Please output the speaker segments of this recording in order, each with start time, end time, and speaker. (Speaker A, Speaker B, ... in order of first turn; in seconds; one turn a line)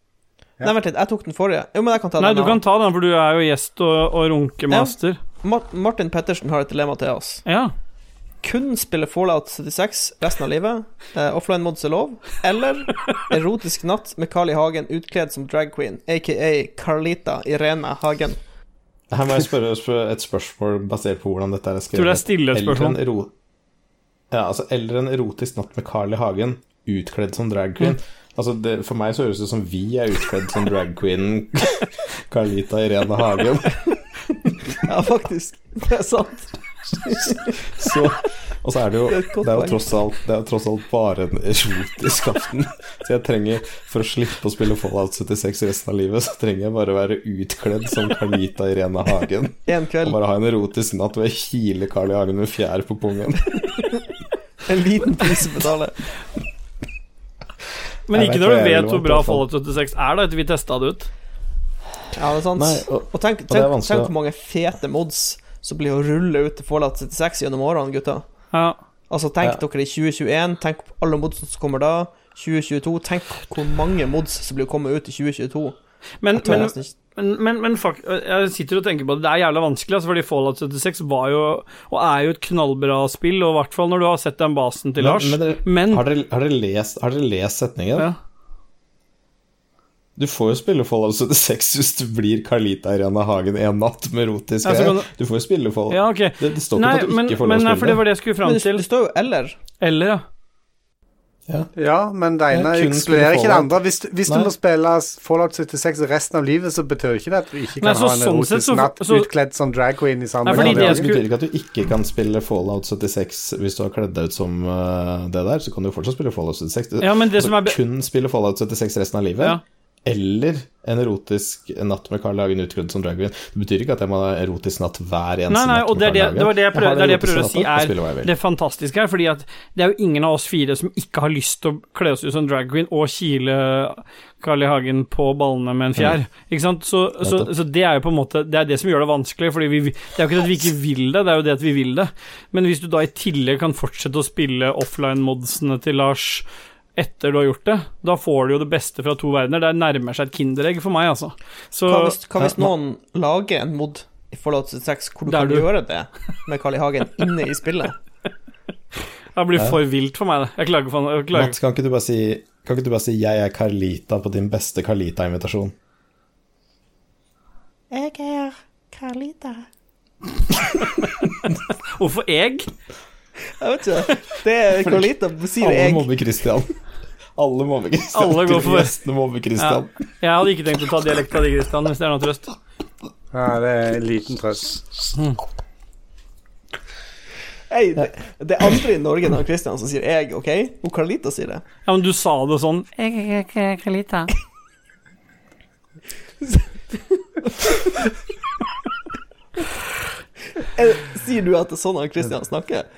Speaker A: 0.6-2.6
Speaker B: 2.2-5.2
Speaker A: 4.7-7.4
Speaker B: 7.5-7.7
Speaker A: 8.4-18.4
Speaker C: 19.1-23.3
Speaker B: 21.9-23.0
Speaker C: 24.3-34.5
Speaker A: 34.8-37.6
Speaker C: 37.0-53.7
Speaker A: 39.1-39.9
Speaker A: 49.7-50.2
Speaker A: 54.6-56.0
Speaker B: 58.1-61.1
Speaker C: 58.1-59.4
Speaker A: 62.1-68.5
Speaker C: 62.5-64.1
Speaker B: 68.5-68.8
Speaker A: 69.1-75.8
Speaker B: 76.2-86.0
Speaker A: 76.3-77.0
Speaker C: 85.0-88.1
Speaker C: 90.2-98.0
Speaker B: 94.6-95.1
Speaker B: 95.9-98.8
Speaker A: 98.4-99.6
Speaker B: 99.8-100.2
Speaker D: 101.8-111.1
Speaker C: 102.5-104.5
Speaker B: 107.8-109.3
Speaker B: 110.5-111.2
Speaker C: 110.5-128.3
Speaker B: 117.0-117.8
Speaker B: 125.5-152.2
Speaker C: 137.2-137.5
Speaker A: 151.9-157.9
Speaker C: 152.4-152.7
Speaker B: 155.3-155.7
Speaker B: 159.3-161.5
Speaker C: 161.3-165.7
Speaker A: 167.9-169.7
Speaker B: 171.9-172.7
Speaker A: 173.6-176.1
Speaker C: 174.8-175.1
Speaker C: 175.6-176.8
Speaker C: 177.4-179.9
Speaker B: 178.1-178.9
Speaker B: 179.6-182.6
Speaker D: 183.3-184.8
Speaker A: 187.7-191.6
Speaker B: 191.8-194.3
Speaker A: 196.4-197.2
Speaker A: 200.6-202.9